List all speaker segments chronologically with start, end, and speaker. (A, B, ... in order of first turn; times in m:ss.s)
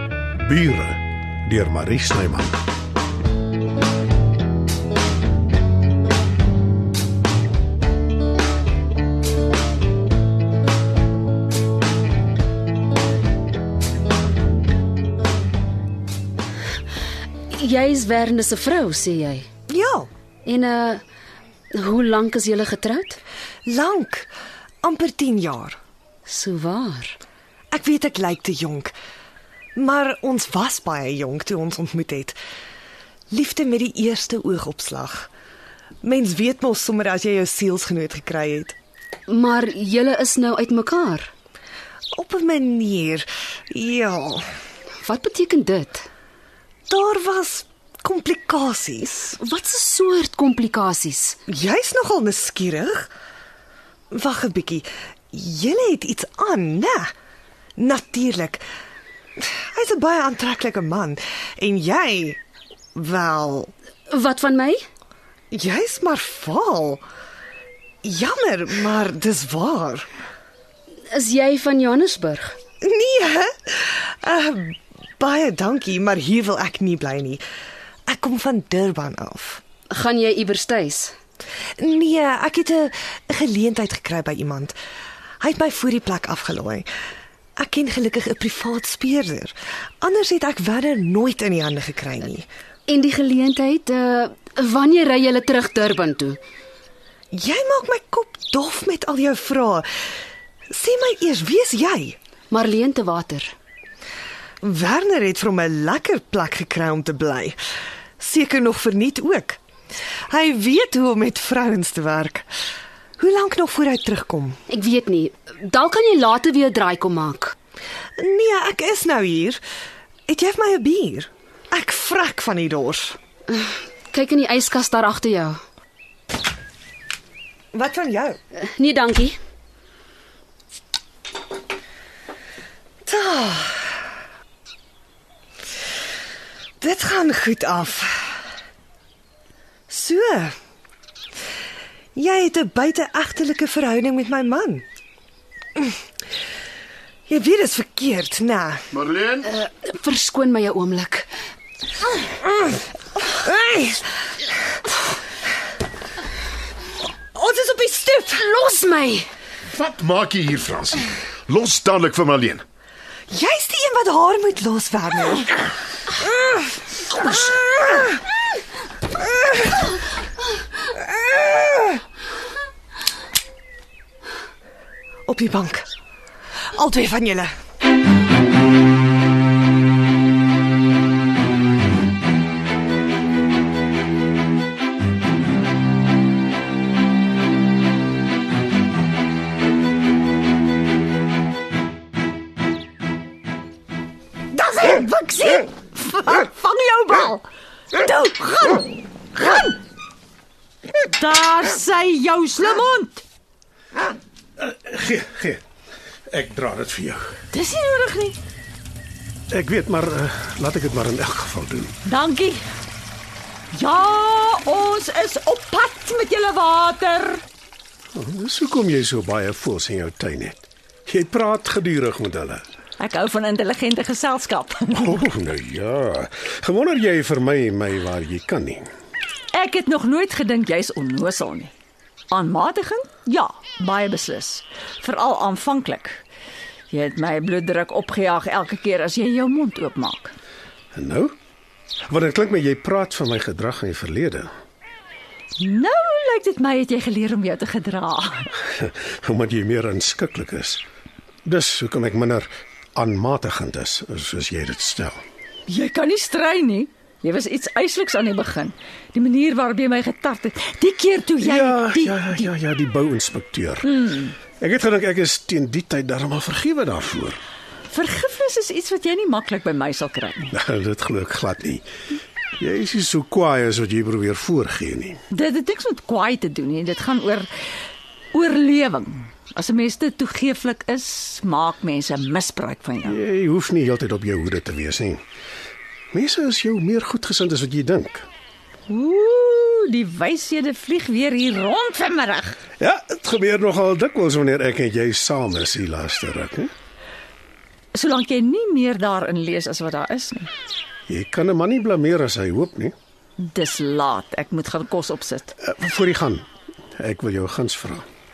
0:00.4-0:02.6 A
0:17.5-0:19.5 B
0:19.7-0:20.1 C
0:20.4-0:21.0 B
0:21.7-0:23.2 B
0:23.6-0:24.3 C
0:24.8-0:25.8 C
0:26.2-0:27.2 B
0:27.7-0:28.9 C
0:29.8-0:32.4 C
0:33.3-0:35.3 C
0:36.0-0:38.7 C
0:39.3-0:41.3 B
0:42.1-0:44.4 C
0:45.0-0:46.0 B
0:46.9-0:49.3 C
0:49.3-0:51.4 B
0:51.5-0:53.1 C
0:54.1-0:57.1 C
0:57.8-0:58.6 C
0:59.4-1:02.4 C
1:02.9-1:03.7 C
1:04.1-1:04.8 B
1:05.5-1:07.0 C
1:08.0-1:10.1 C
1:11.1-1:12.5 B
1:12.8-1:17.4 C
1:18.1-1:19.6 C
1:19.9-1:21.1 B
1:21.8-1:24.7 C
1:25.4-1:26.9 C
1:27.6-1:32.5 C
1:32.9-1:36.4 B
1:37.3-1:39.8 C
1:40.7-1:42.2 C
1:42.5-1:43.5 B
1:44.6-1:47.6 C
1:48.2-1:49.6 C
1:50.3-1:52.5 C
1:53.2-1:54.6 C
1:54.7-1:57.5 B
1:58.2-1:59.6 C
2:00.3-2:03.2 C
2:03.5-2:05.6 B
2:07.7-2:08.4 C
2:08.5-2:09.4 B
2:13.0-2:14.0 C
2:16.8-2:18.4 C
2:19.9-2:20.5 C
2:22.2-2:24.8 C
2:27.3-2:28.8 C
2:28.9-2:29.5 D
2:29.4-2:31.3 B
2:33.3-2:34.0 C
2:37.3-2:38.5 C
2:38.6-2:39.2 B
2:39.7-2:42.6 D
2:43.3-2:45.5 C
2:47.1-2:48.0 C
2:55.2-2:55.8 C
2:56.7-2:57.5 C
3:14.6-3:15.5 C
3:15.5-3:17.4 E
3:18.0-3:18.8 E
3:19.4-3:19.7 E
3:21.0-3:23.2 E
3:24.6-3:25.6 A
3:26.3-3:27.3 A
3:27.5-3:28.4 E
3:29.5-3:31.9 A
3:32.0-3:32.7 E
3:33.7-3:37.4 E
3:38.1-3:42.6 A
3:43.0-3:45.2 E
3:45.0-3:48.9 A
3:49.5-3:51.7 E
3:52.3-3:56.2 E
3:56.9-4:00.4 E
4:00.9-4:01.3 A
4:02.1-4:04.5 A
4:05.6-4:08.5 E
4:08.7-4:10.8 A
4:11.4-4:15.2 A
4:15.7-4:22.5 E
4:21.4-4:24.0 A
4:23.8-4:24.3 E
4:24.6-4:27.4 A
4:27.9-4:30.5 E
4:30.5-4:31.8 A
4:32.6-4:35.2 A
4:35.3-4:37.5 E
4:38.3-4:43.2 E
4:43.0-4:45.2 A
4:46.1-4:48.3 A
4:48.9-4:52.6 E
4:52.8-4:56.7 A
4:57.9-5:00.5 E
5:01.1-5:02.9 A
5:03.4-5:05.5 E
5:05.6-5:06.4 A
5:07.0-5:08.0 A